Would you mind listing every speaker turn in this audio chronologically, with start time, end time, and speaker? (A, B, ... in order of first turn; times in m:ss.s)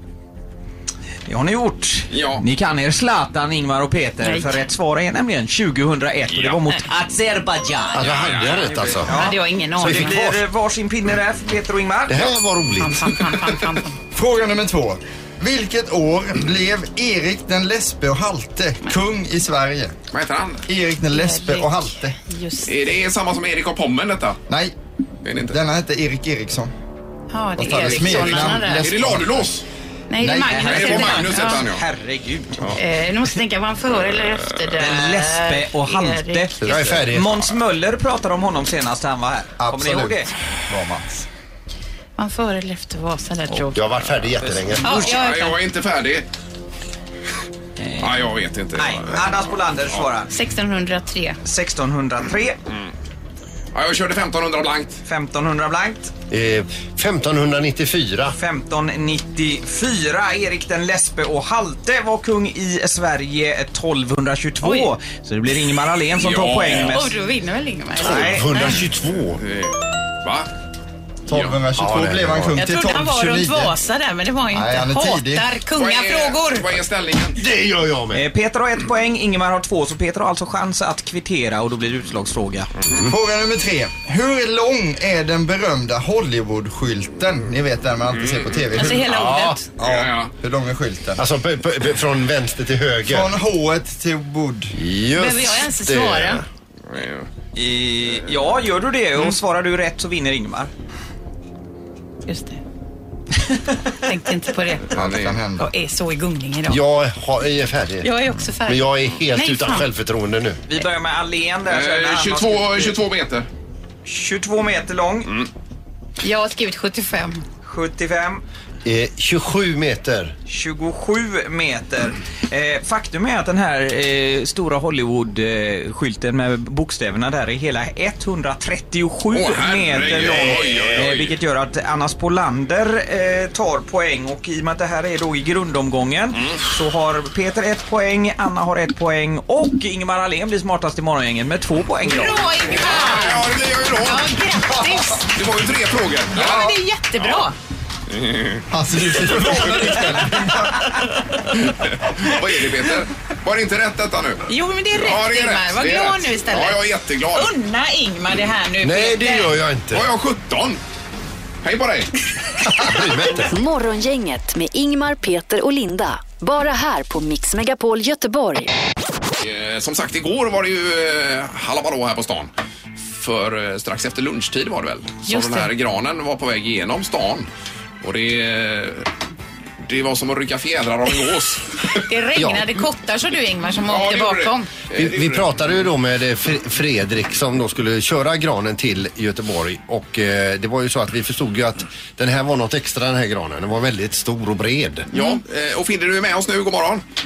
0:01.3-0:08.1 A
0:02.1-0:02.4 B
0:04.2-0:04.6 C
0:06.3-0:06.6 B
0:07.9-0:09.2 D
0:08.0-0:09.0 B
0:08.6-0:12.2 A
0:09.1-0:10.2 C
0:09.8-0:10.4 D
0:12.1-0:13.2 D
0:12.8-0:14.0 C
0:14.1-0:19.9 E
0:20.1-0:20.6 B
0:20.7-0:22.2 E
0:21.1-0:22.8 C
0:22.6-0:24.4 B
0:25.2-0:25.6 B
0:25.5-0:26.7 E
0:27.3-0:28.9 C
0:27.6-0:29.5 E
0:27.8-0:29.6 B
0:30.1-0:31.6 C
0:30.2-0:30.8 E
0:30.5-0:32.8 A
0:30.6-0:31.8 B
0:32.8-0:36.9 C
0:34.3-0:34.7 B
0:34.8-0:40.3 A
0:36.6-0:37.5 D
0:39.6-0:41.2 E
0:42.2-0:43.8 C
0:43.7-0:45.2 D
0:44.8-0:45.6 C
0:44.8-0:46.3 B
0:47.8-0:48.1 A
0:48.0-0:49.2 B
0:48.8-0:50.3 A
0:50.3-0:51.4 C
0:51.4-0:52.6 A
0:53.7-0:55.0 B
0:55.0-0:56.1 A
0:56.3-0:58.4 D
0:58.4-1:07.1 A
1:04.6-1:04.9 C
1:06.2-1:07.0 B
1:06.9-1:08.8 C
1:08.0-1:09.4 D
1:08.0-1:08.4 A
1:09.4-1:10.5 B
1:11.3-1:13.7 E
1:11.3-1:11.6 B
1:11.8-1:12.6 D
1:12.6-1:16.6 C
1:14.5-1:15.5 E
1:15.8-1:17.4 B
1:17.4-1:18.2 D
1:18.1-1:22.7 A
1:23.0-1:29.1 E
1:28.1-1:28.6 B
1:28.7-1:29.6 C
1:29.0-1:29.6 D
1:29.8-1:31.2 E
1:29.8-1:30.3 B
1:31.2-1:33.3 D
1:33.1-1:34.7 E
1:34.7-1:36.4 D
1:35.2-1:36.4 C
1:36.9-1:37.3 B
1:37.5-1:40.7 A
1:42.2-1:42.6 C
1:44.0-1:44.9 C
1:44.9-1:45.4 B
1:44.9-1:45.7 E
1:45.6-1:46.8 C
1:46.7-1:48.1 D
1:48.0-1:49.8 C
1:48.6-1:50.6 D
1:50.7-1:53.0 A
1:51.7-1:53.5 B
1:54.0-1:55.3 A
1:56.2-1:57.4 C
1:57.6-1:58.4 A
1:58.8-2:00.3 D
2:00.5-2:22.4 A
2:09.3-2:11.4 B
2:22.0-2:25.3 C
2:22.7-2:24.4 B
2:25.3-2:27.4 B
2:26.3-2:27.5 C
2:28.1-2:28.6 B
2:28.7-2:30.9 E
2:31.7-2:37.5 B
2:34.5-2:36.8 C
2:37.3-2:39.5 C
2:38.8-2:40.0 D
2:39.9-2:40.8 B
2:41.6-2:42.1 B
2:42.6-2:43.5 D
2:43.5-2:48.7 F
2:49.4-2:52.5 B
2:53.1-2:57.5 B
2:55.3-2:55.7 C
2:58.0-2:59.1 B
2:59.8-3:02.0 B
3:02.0-3:04.7 C
3:02.4-3:02.7 D
3:03.9-3:05.5 B
3:04.9-3:15.1 D
3:15.1-3:15.4 C
3:15.1-3:17.0 B